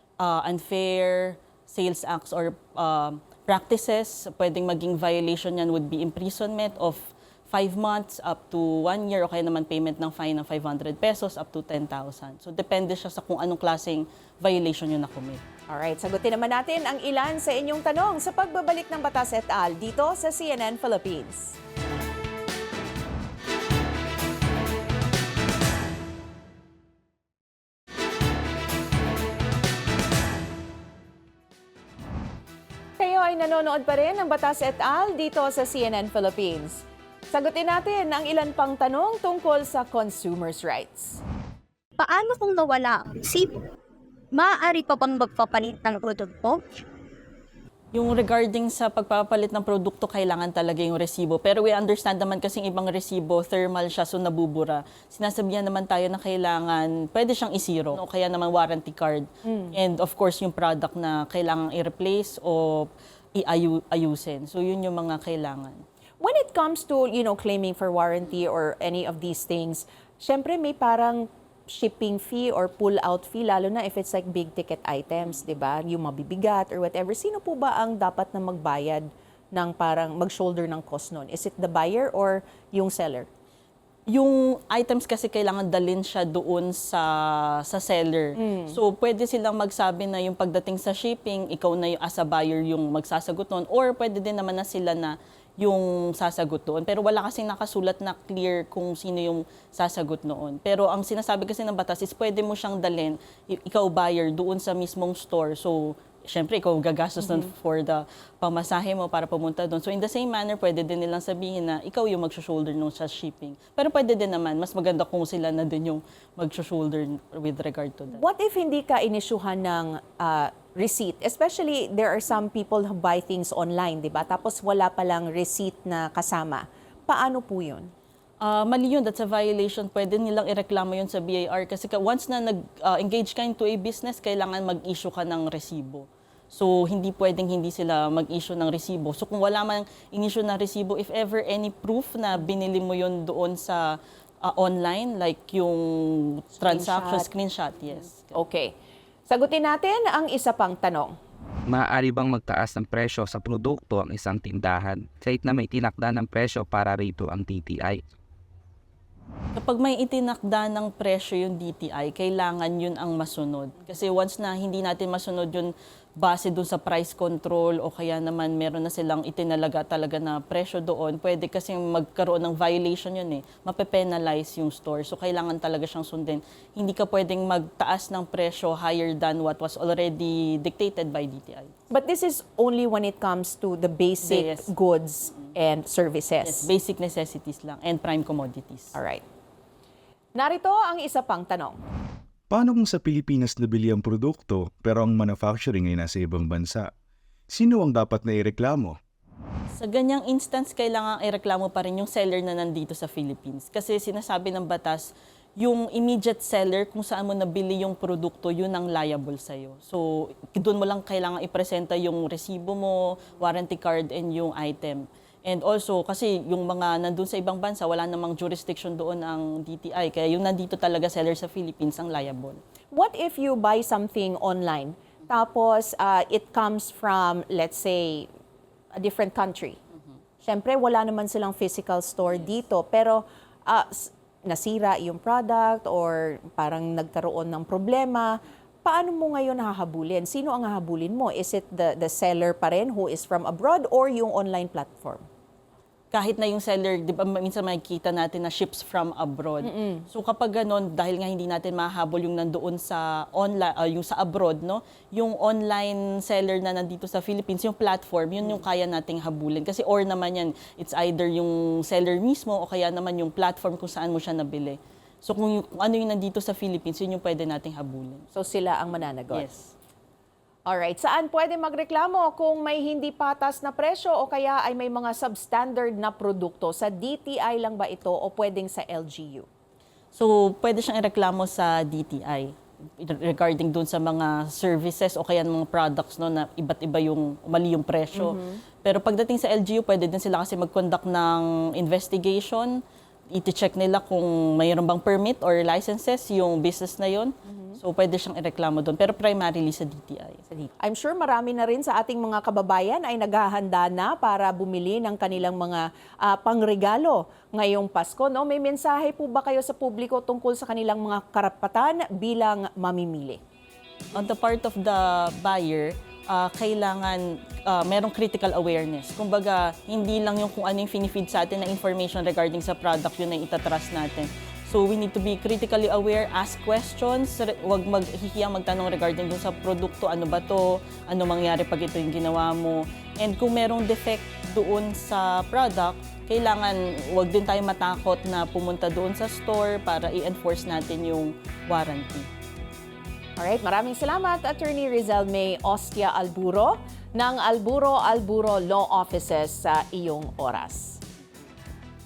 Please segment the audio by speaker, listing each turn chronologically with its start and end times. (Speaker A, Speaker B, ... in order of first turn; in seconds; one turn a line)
Speaker A: 0.2-15.4
Speaker B: 15.7-21.6
Speaker B: 33.0-41.2
Speaker C: 42.0-43.7
Speaker C: 44.3-46.8
Speaker A: 47.9-65.8
Speaker B: 59.5-59.8
Speaker B: 66.2-83.3
Speaker A: 84.1-118.2
Speaker B: 88.4-88.8
Speaker B: 107.2-107.5
Speaker B: 118.1-127.9
Speaker A: 128.4-148.4
Speaker B: 146.6-147.3
Speaker B: 148.3-148.7
Speaker B: 149.3-151.1
Speaker D: 151.7-158.0
Speaker A: 159.6-181.7
Speaker B: 181.9-186.7
Speaker A: 184.2-184.7
Speaker A: 186.4-189.0
Speaker B: 188.9-189.2
Speaker B: 190.4-191.8
Speaker E: 192.5-196.9
Speaker E: 197.5-199.0
Speaker A: 199.7-222.6
Speaker B: 222.9-228.3
Speaker B: 228.9-229.8
Speaker B: 230.4-245.2
Speaker A: 246.1-268.3
Speaker B: 249.6-250.1
Speaker B: 268.4-269.5
Speaker A: 269.4-269.7
Speaker B: 270.7-279.5
Speaker A: 280.1-292.8
Speaker B: 288.1-288.6
Speaker A: 293.3-300.5
Speaker B: 297.5-297.8
Speaker B: 300.6-313.4
Speaker A: 314.1-342.3
Speaker B: 343.4-351.0
Speaker A: 351.2-351.5